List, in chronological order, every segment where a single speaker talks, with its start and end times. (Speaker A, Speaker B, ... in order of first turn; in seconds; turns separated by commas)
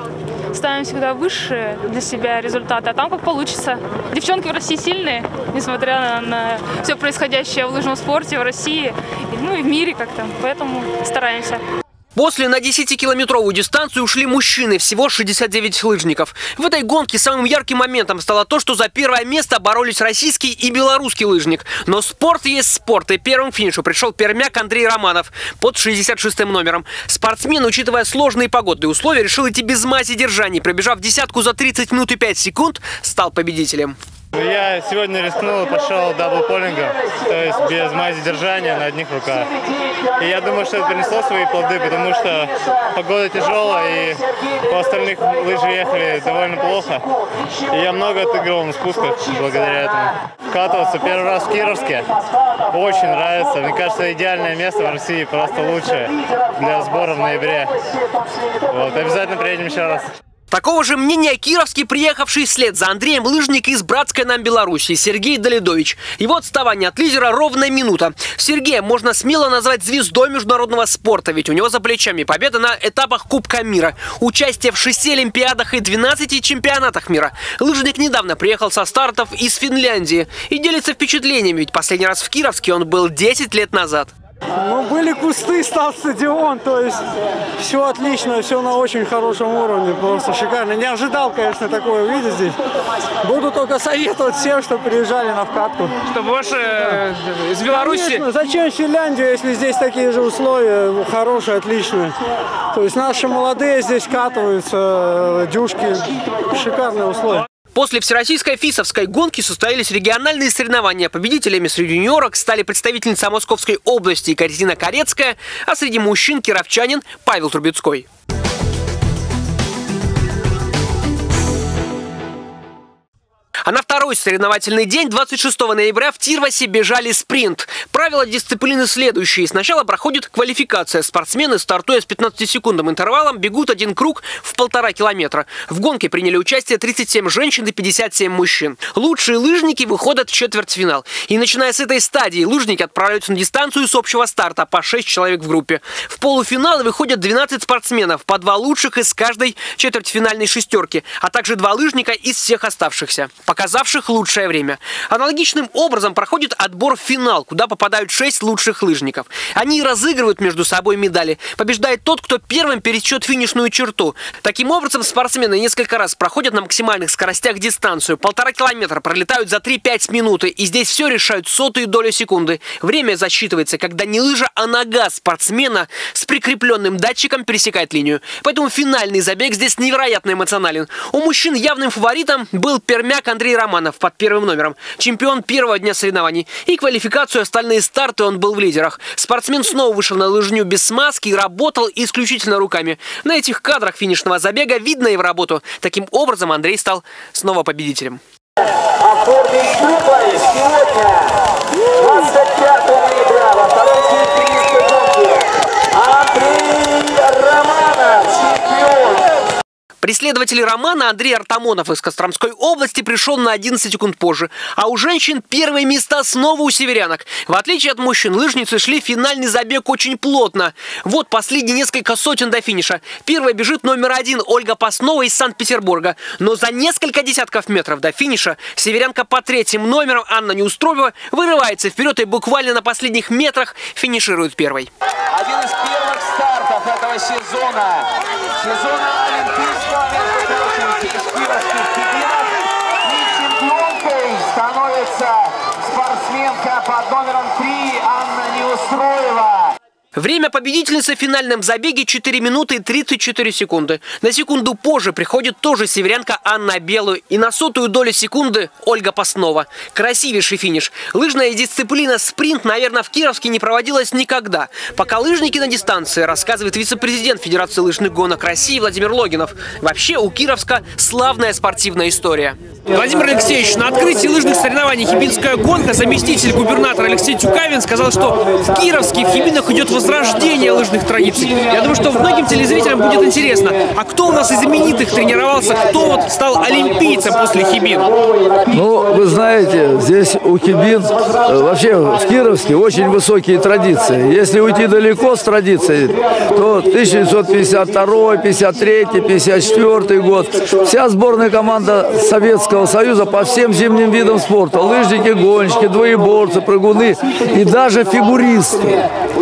Speaker A: 0.5-11.6, Speaker B: 12.2-34.0, Speaker C: 34.4-39.5, Speaker C: 40.1-47.1, Speaker C: 47.7-52.1, Speaker C: 52.7-57.8, Speaker C: 58.7-60.1, Speaker B: 60.5-84.1, Speaker D: 84.6-87.0, Speaker D: 87.6-92.5, Speaker D: 93.2-95.9, Speaker B: 96.1-98.3, Speaker D: 97.6-102.2, Speaker D: 102.7-107.5, Speaker B: 107.7-118.1, Speaker B: 123.7-198.2, Speaker E: 199.4-201.0, Speaker E: 202.2-205.0, Speaker E: 206.4-208.6, Speaker B: 210.0-234.9, Speaker E: 243.6-245.3, Speaker E: 246.1-249.6, Speaker B: 250.2-288.1, Speaker F: 288.7-309.1